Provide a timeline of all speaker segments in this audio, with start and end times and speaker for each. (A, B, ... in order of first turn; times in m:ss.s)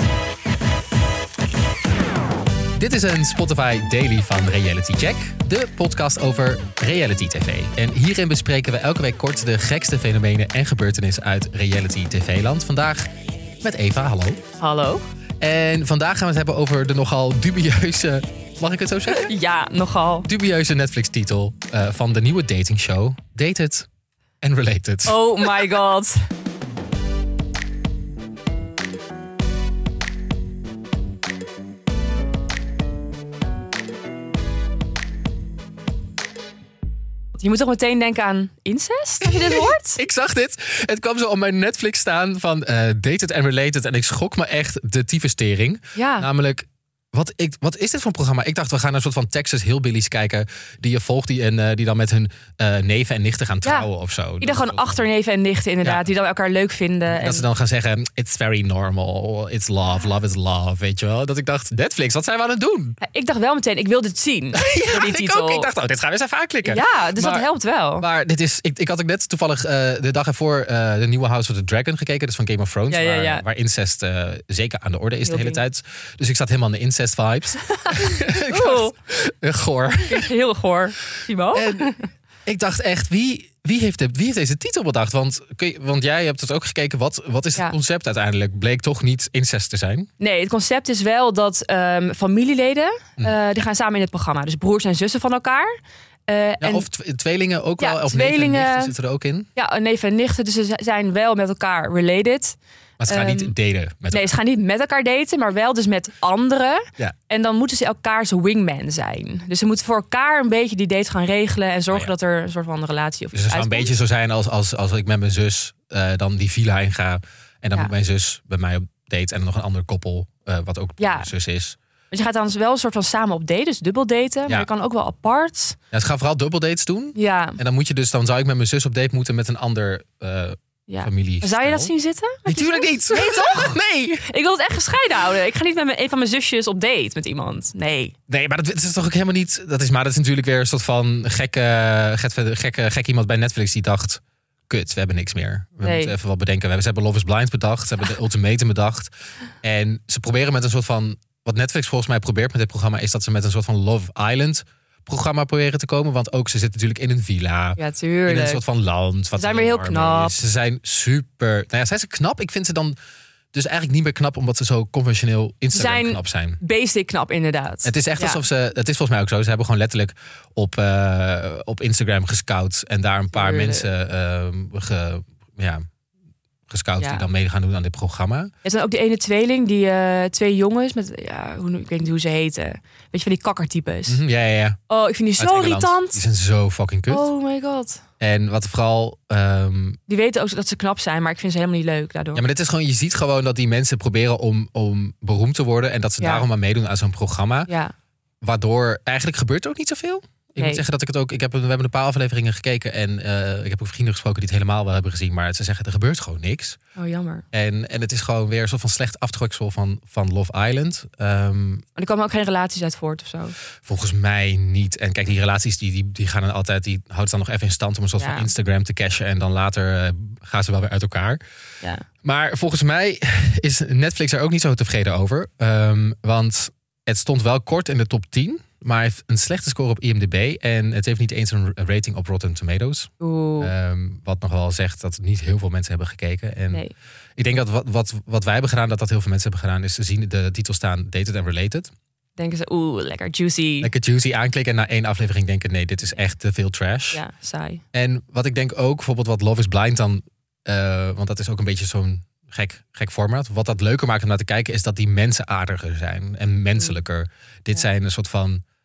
0:02.8-0:13.1 A
0:13.6-0:14.4 A
0:14.6-0:15.0 B
0:15.4-0:19.3 A
0:19.1-0:20.3 B
0:20.2-0:23.9 A
0:24.4-0:25.8 A
0:25.0-0:26.2 B
0:37.4-0:40.0 B
0:39.2-0:55.0 A
0:46.0-0:46.3 B
0:54.4-0:57.4 B
0:55.8-0:56.1 A
0:57.1-1:03.0 A
1:03.0-1:05.7 B
1:04.5-1:20.3 A
1:06.6-1:08.0 B
1:12.9-1:13.4 B
1:15.2-1:15.6 B
1:18.5-1:18.9 B
1:20.1-1:22.0 B
1:21.5-1:21.9 A
1:22.4-1:30.1 A
1:30.2-1:35.7 B
1:36.3-1:36.8 B
1:36.6-1:39.5 A
1:37.8-1:38.9 B
1:39.6-1:43.5 B
1:43.0-1:44.3 A
1:44.1-1:53.9 B
1:53.3-2:01.8 A
2:01.0-2:01.3 B
2:02.1-2:05.8 B
2:05.9-2:11.9 A
2:07.2-2:07.6 B
2:10.9-2:13.7 B
2:12.4-2:14.3 A
2:14.3-2:18.1 B
2:18.3-2:43.0 A
2:25.8-2:26.1 B
2:37.8-2:38.6 B
2:39.4-2:40.3 B
2:43.5-2:46.6 A
2:45.7-2:48.4 B
2:47.8-2:55.8 A
2:53.3-2:53.9 B
2:56.7-2:58.5 A
2:57.0-2:57.2 B
2:58.6-3:04.2 B
3:04.1-3:04.8 A
3:04.9-3:06.2 B
3:05.4-3:07.3 A
3:07.1-3:08.0 B
3:08.2-3:10.0 A
3:10.1-3:12.4 B
3:12.3-3:17.7 A
3:16.2-3:16.4 B
3:18.4-3:26.8 A
3:20.6-3:20.8 B
3:27.0-3:27.4 B
3:27.5-3:31.8 A
3:32.0-3:33.6 B
3:33.8-3:41.4 A
3:38.2-3:38.5 B
3:42.2-3:56.8 A
3:53.2-3:53.7 B
3:57.4-4:01.9 A
4:02.4-4:03.9 B
4:03.8-4:07.2 A
4:07.1-4:07.8 B
4:07.9-4:18.6 A